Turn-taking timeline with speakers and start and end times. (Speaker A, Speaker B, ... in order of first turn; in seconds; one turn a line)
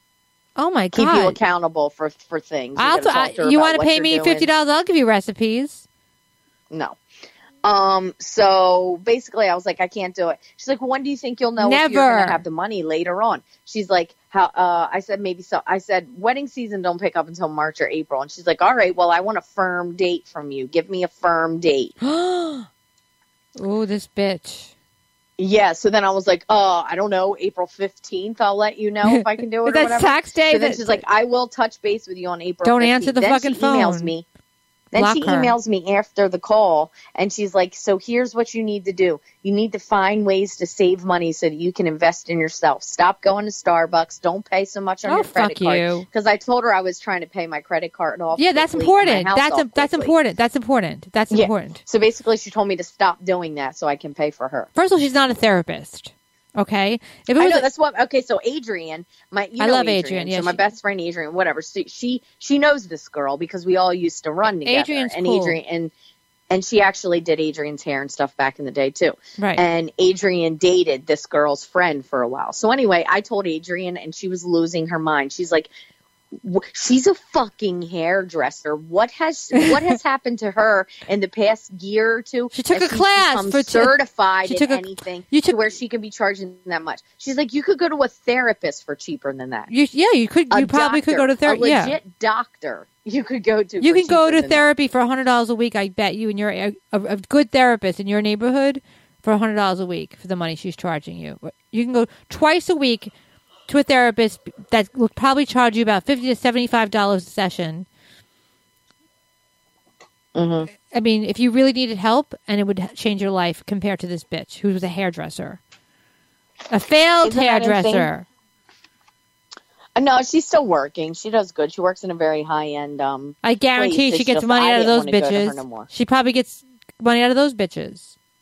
Speaker A: 0.6-1.4
Speaker B: 0.9-4.5
Speaker A: 2.8-5.8
Speaker B: 6.7-7.0
Speaker B: 7.6-21.9
Speaker A: 11.6-12.4
Speaker A: 22.0-22.7
Speaker A: 23.6-24.7
Speaker B: 25.4-34.2
Speaker A: 29.0-31.0
Speaker A: 32.6-34.1
Speaker B: 34.9-50.1
Speaker A: 34.9-35.5
Speaker A: 45.0-46.0
Speaker A: 48.4-51.8
Speaker B: 51.3-54.7
Speaker A: 54.7-57.7
Speaker B: 57.4-65.9
Speaker A: 59.6-60.6
Speaker A: 64.7-65.6
Speaker B: 66.5-75.7
Speaker A: 69.4-69.6
Speaker B: 76.3-89.7
Speaker A: 82.5-83.9
Speaker A: 84.5-85.6
Speaker A: 89.7-92.0
Speaker B: 90.5-94.7
Speaker A: 93.8-103.1
Speaker A: 103.7-107.8
Speaker B: 110.3-110.7
Speaker A: 110.9-115.6
Speaker A: 116.7-118.2
Speaker B: 117.2-118.1
Speaker B: 120.0-125.9
Speaker A: 123.4-128.1